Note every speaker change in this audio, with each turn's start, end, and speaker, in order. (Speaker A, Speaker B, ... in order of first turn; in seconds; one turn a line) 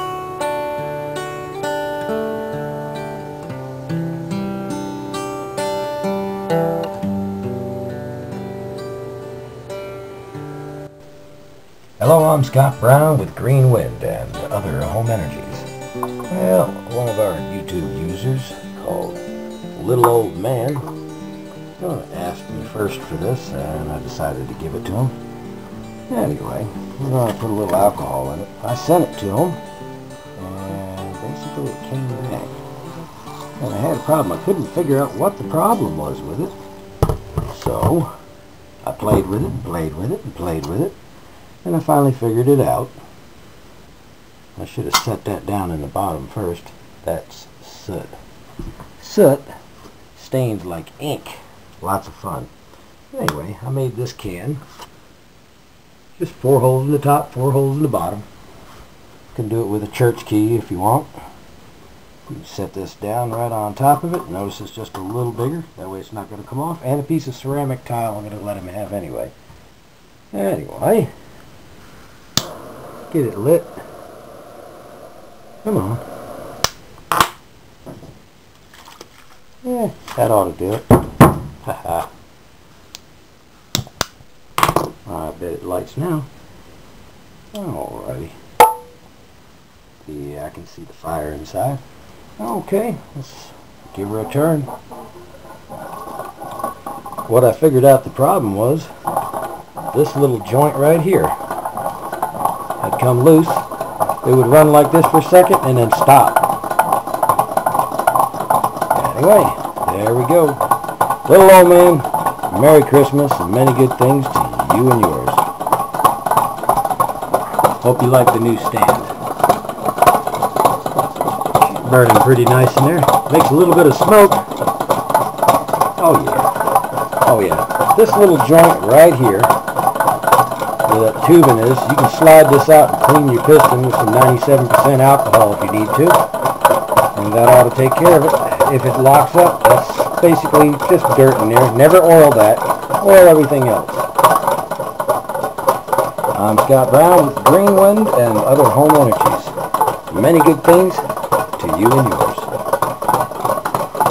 Speaker A: 12.0-15.7
Speaker A: 16.3-20.9
Speaker A: 21.8-25.1
Speaker A: 26.1-29.6
Speaker A: 30.4-32.6
Speaker A: 33.6-36.6
Speaker A: 37.4-38.1
Speaker A: 38.8-41.0
Speaker A: 41.6-43.0
Speaker A: 44.5-48.2
Speaker A: 49.0-49.5
Speaker A: 50.1-52.5
Speaker A: 53.1-54.6
Speaker A: 56.1-58.2
Speaker A: 59.3-61.1
Speaker A: 62.3-69.3
Speaker A: 70.3-71.1
Speaker A: 73.1-73.8
Speaker A: 75.6-76.0
Speaker A: 79.6-81.0
Speaker A: 81.6-82.1
Speaker A: 85.0-86.3
Speaker A: 87.5-88.3
Speaker A: 90.0-91.8
Speaker A: 92.4-94.7
Speaker A: 97.3-98.9
Speaker A: 99.9-101.4
Speaker A: 102.8-103.6
Speaker A: 104.2-106.5
Speaker A: 108.9-110.6
Speaker A: 111.2-115.4
Speaker A: 117.8-119.1
Speaker A: 121.4-124.5
Speaker A: 126.0-126.5
Speaker A: 127.2-129.5
Speaker A: 130.8-136.2
Speaker A: 137.1-144.1
Speaker A: 146.3-149.5
Speaker A: 150.1-152.5